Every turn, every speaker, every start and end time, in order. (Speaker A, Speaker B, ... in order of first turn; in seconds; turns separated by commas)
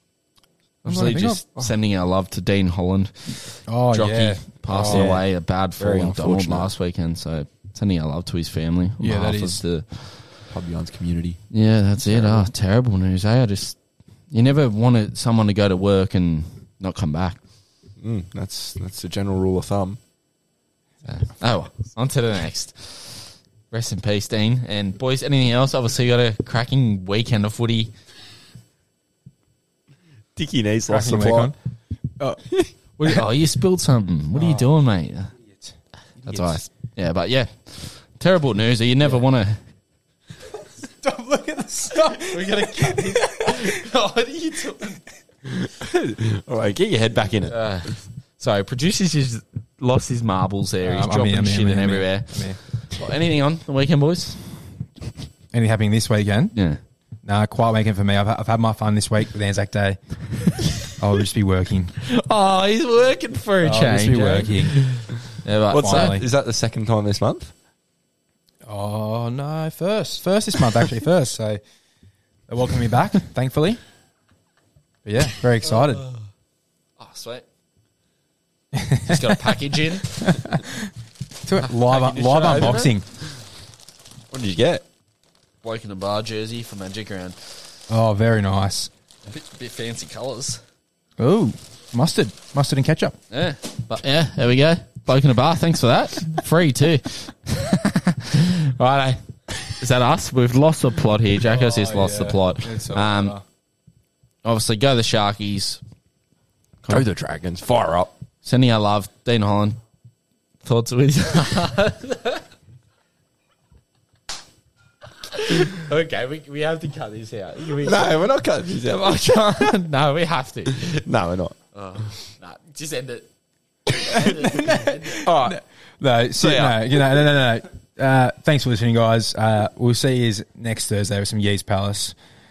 Speaker A: 0.8-10.3, Speaker B: 0.8-1.4, Speaker B: 3.7-5.2, Speaker C: 4.9-6.7, Speaker B: 9.0-9.6, Speaker C: 10.5-11.4, Speaker A: 11.5-13.8, Speaker C: 12.1-12.5, Speaker A: 14.3-17.4, Speaker C: 18.0-20.0, Speaker A: 21.1-27.9, Speaker C: 30.4-31.5, Speaker B: 30.9-31.6, Speaker B: 32.2-32.5, Speaker A: 33.0-35.3, Speaker B: 34.4-34.7, Speaker B: 35.5-36.6, Speaker A: 36.2-39.6, Speaker B: 40.8-43.9, Speaker A: 42.1-45.0, Speaker C: 45.5-47.6, Speaker A: 47.5-54.6, Speaker B: 50.8-52.6, Speaker B: 55.5-56.5, Speaker B: 57.2-60.0, Speaker B: 60.8-62.0, Speaker A: 62.0-66.2, Speaker B: 63.6-64.8, Speaker C: 65.7-67.5, Speaker B: 65.8-66.3, Speaker B: 68.7-71.6, Speaker B: 72.5-73.8, Speaker B: 75.0-76.1, Speaker A: 77.0-77.5, Speaker B: 78.7-80.9, Speaker A: 79.0-80.3, Speaker B: 81.4-83.1, Speaker A: 81.6-82.9, Speaker C: 84.3-84.8, Speaker A: 85.6-87.6, Speaker B: 87.9-88.9, Speaker A: 89.3-90.6, Speaker B: 91.2-93.2, Speaker A: 93.3-103.4, Speaker B: 101.4-103.4, Speaker A: 104.4-105.8, Speaker C: 106.9-108.1, Speaker A: 108.4-109.8, Speaker A: 110.6-112.5, Speaker A: 115.3-118.2, Speaker C: 117.8-119.6, Speaker A: 118.7-120.9, Speaker C: 120.7-121.6, Speaker A: 121.8-123.3, Speaker A: 123.9-125.3, Speaker B: 124.0-132.2, Speaker C: 125.1-125.6, Speaker C: 126.4-126.9